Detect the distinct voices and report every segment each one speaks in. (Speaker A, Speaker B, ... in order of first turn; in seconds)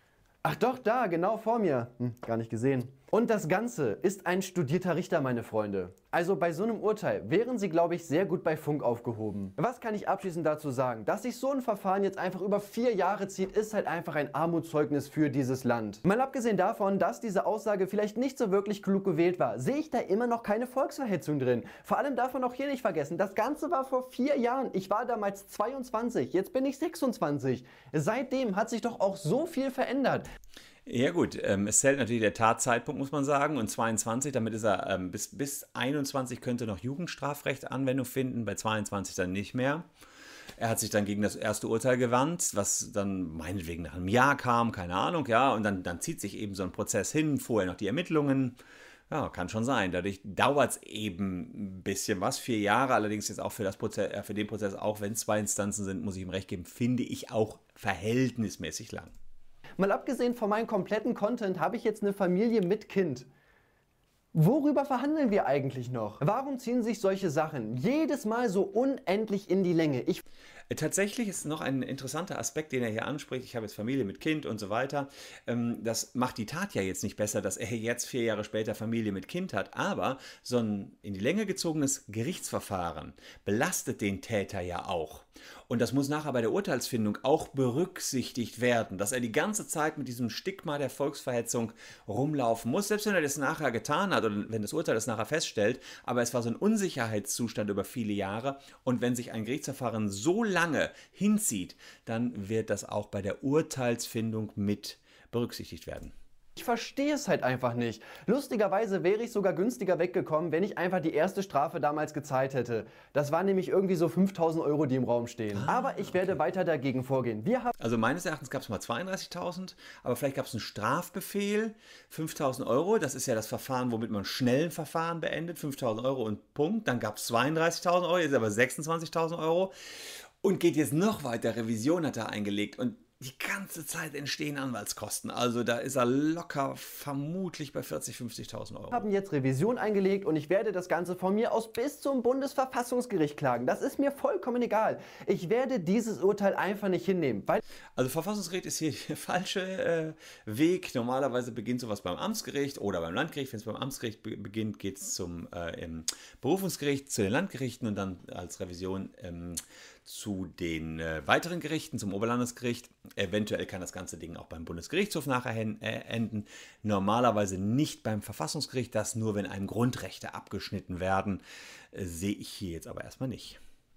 Speaker A: 0.4-30.3, 59.8-63.3, 64.3-70.2, 106.5-117.7, 138.9-147.6
Speaker B: 30.9-39.9, 40.6-48.6, 49.1-59.1, 70.7-106.1, 115.5-116.4, 117.8-129.7, 130.4-139.0, 148.0-171.4, 171.9-173.6